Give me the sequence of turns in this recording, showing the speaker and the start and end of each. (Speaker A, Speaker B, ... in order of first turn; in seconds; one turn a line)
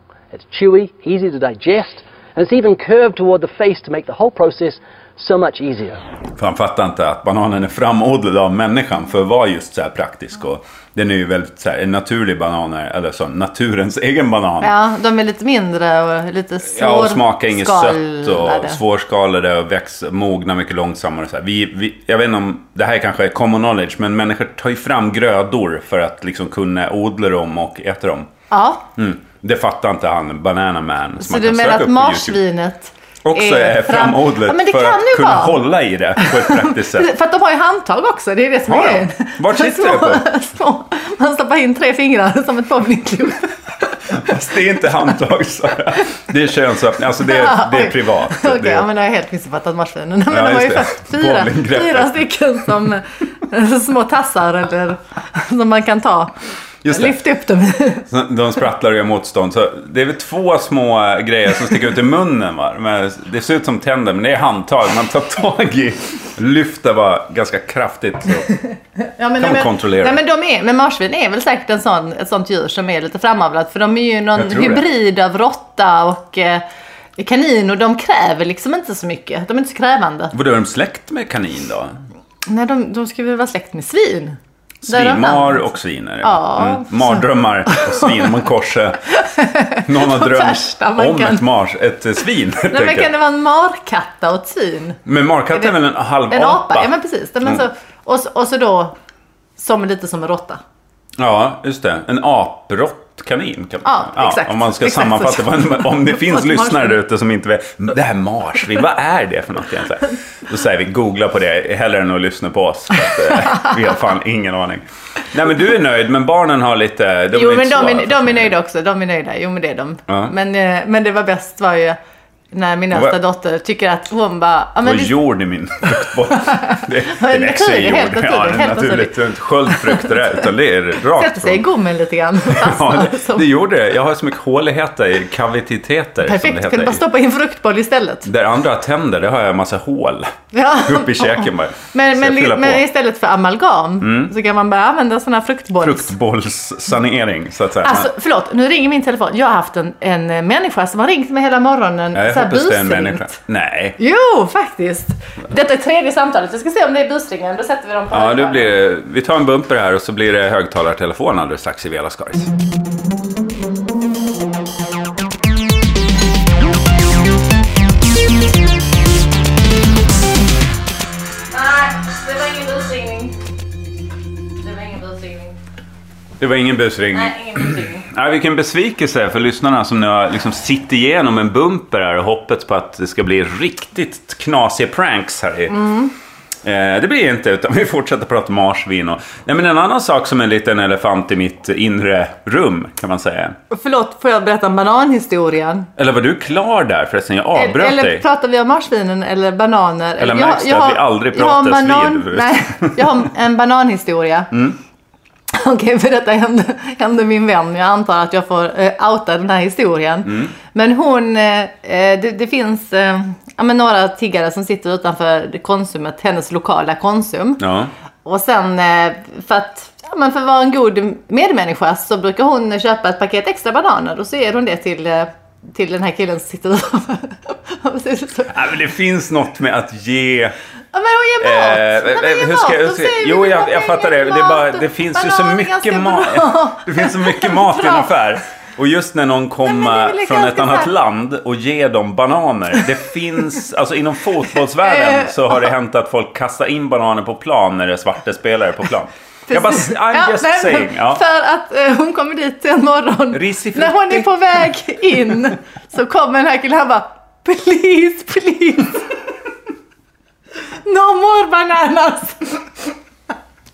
Speaker A: 0.3-6.0
Speaker B: 6.4-14.7
Speaker C: 14.6-18.8
Speaker B: 16.7-28.3
Speaker C: 28.5-28.9
Speaker B: 28.9-32.4
Speaker C: 31.2-35.6
Speaker B: 33.2-37.1
Speaker C: 36.2-43.5
Speaker B: 38.7-40.3
Speaker B: 44.1-48.9
Speaker C: 47.2-56.3
Speaker B: 50.3-52.2
Speaker B: 56.8-57.2
Speaker C: 56.9-58.1
Speaker B: 58.1-68.5
Speaker C: 69.2-76.6
Speaker B: 69.4-70.2
Speaker B: 74.3-74.8
Speaker C: 77.2-80.3
Speaker B: 80.3-82.0
Speaker C: 82.5-85.7
Speaker B: 84.8-89.0
Speaker C: 86.2-88.3
Speaker C: 89.1-91.4
Speaker B: 89.8-93.1
Speaker C: 92.7-95.0
Speaker B: 95.0-96.9
Speaker C: 96.3-98.9
Speaker C: 99.6-100.6
Speaker B: 101.2-118.5
Speaker C: 103.8-107.0
Speaker C: 117.3-122.0
Speaker B: 120.1-120.3
Speaker C: 122.5-125.1
Speaker B: 124.8-131.6
Speaker C: 126.4-129.1
Speaker C: 129.7-130.2
Speaker C: 131.2-133.4
Speaker B: 132.5-137.0
Speaker C: 136.2-138.3
Speaker B: 138.2-140.3
Speaker C: 140.5-146.1
Speaker B: 140.8-142.8
Speaker B: 144.0-144.3
Speaker B: 145.8-148.1
Speaker C: 147.8-153.3
Speaker B: 152.1-154.0
Speaker C: 154.0-158.7
Speaker B: 158.1-162.5
Speaker C: 171.5-173.4
Speaker C: 174.6-175.6
Speaker B: 176.4-185.8
Speaker C: 177.1-178.1
Speaker C: 185.7-186.1
Speaker B: 186.6-193.6
Speaker C: 193.7-195.9
Speaker B: 196.0-198.2
Speaker C: 197.6-204.5
Speaker B: 200.2-203.0
Speaker B: 204.5-204.8
Speaker C: 205.5-217.6
Speaker B: 210.2-210.5
Speaker B: 217.6-217.9
Speaker C: 218.2-228.5
Speaker B: 228.5-230.5
Speaker C: 230.9-238.1
Speaker B: 231.4-251.2
Speaker C: 239.6-240.9
Speaker C: 244.8-245.7
Speaker C: 249.5-259.1
Speaker B: 253.3-254.4
Speaker C: 260.8-262.7